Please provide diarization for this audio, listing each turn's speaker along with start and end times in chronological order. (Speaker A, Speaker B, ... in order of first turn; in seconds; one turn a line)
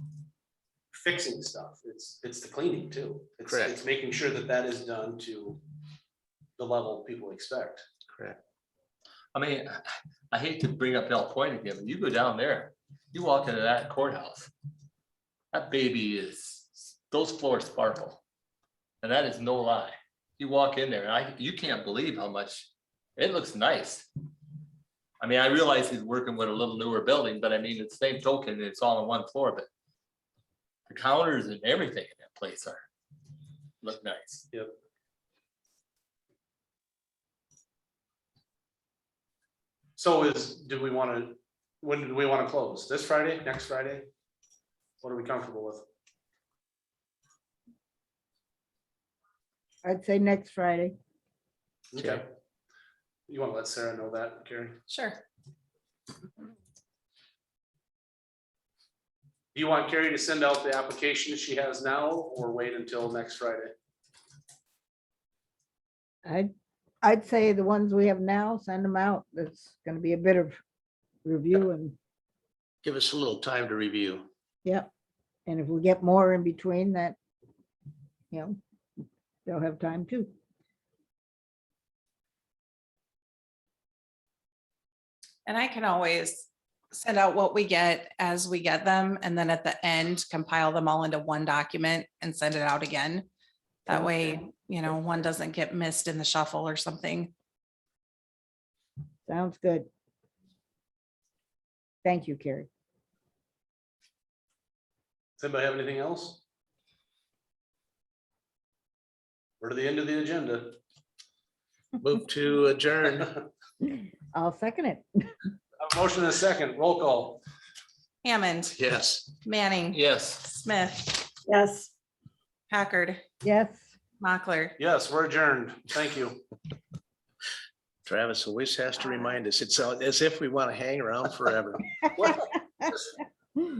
Speaker A: 0.9-5.6
Speaker B: 3.5-3.8
Speaker A: 6.6-7.8
Speaker B: 8.1-8.4
Speaker C: 9.3-9.8
Speaker C: 10.3-14.5
Speaker C: 15.5-18.2
Speaker C: 19.0-24.1
Speaker C: 25.2-29.7
Speaker C: 30.9-32.8
Speaker C: 33.8-34.5
Speaker A: 40.0-44.1
Speaker A: 45.0-45.9
Speaker D: 49.8-50.9
Speaker A: 51.9-52.3
Speaker B: 52.0-52.2
Speaker A: 53.3-54.8
Speaker E: 54.9-55.2
Speaker A: 59.5-63.7
Speaker D: 67.0-70.6
Speaker D: 71.2-72.0
Speaker B: 72.8-74.3
Speaker D: 75.5-77.2
Speaker D: 78.3-78.6
Speaker D: 79.5-80.3
Speaker E: 85.5-93.3
Speaker E: 93.8-97.3
Speaker D: 93.9-94.3
Speaker D: 99.3-99.9
Speaker D: 102.0-102.7
Speaker A: 105.4-106.4
Speaker A: 109.6-110.8
Speaker B: 112.0-113.3
Speaker D: 114.3-115.0
Speaker A: 115.8-117.4
Speaker E: 118.2-118.7
Speaker B: 118.7-119.3
Speaker E: 119.4-121.9
Speaker C: 119.9-120.5
Speaker E: 122.7-123.2
Speaker D: 123.4-123.9
Speaker E: 124.2-124.8
Speaker A: 124.8-126.4
Speaker B: 128.1-131.9
Speaker A: 132.2-132.4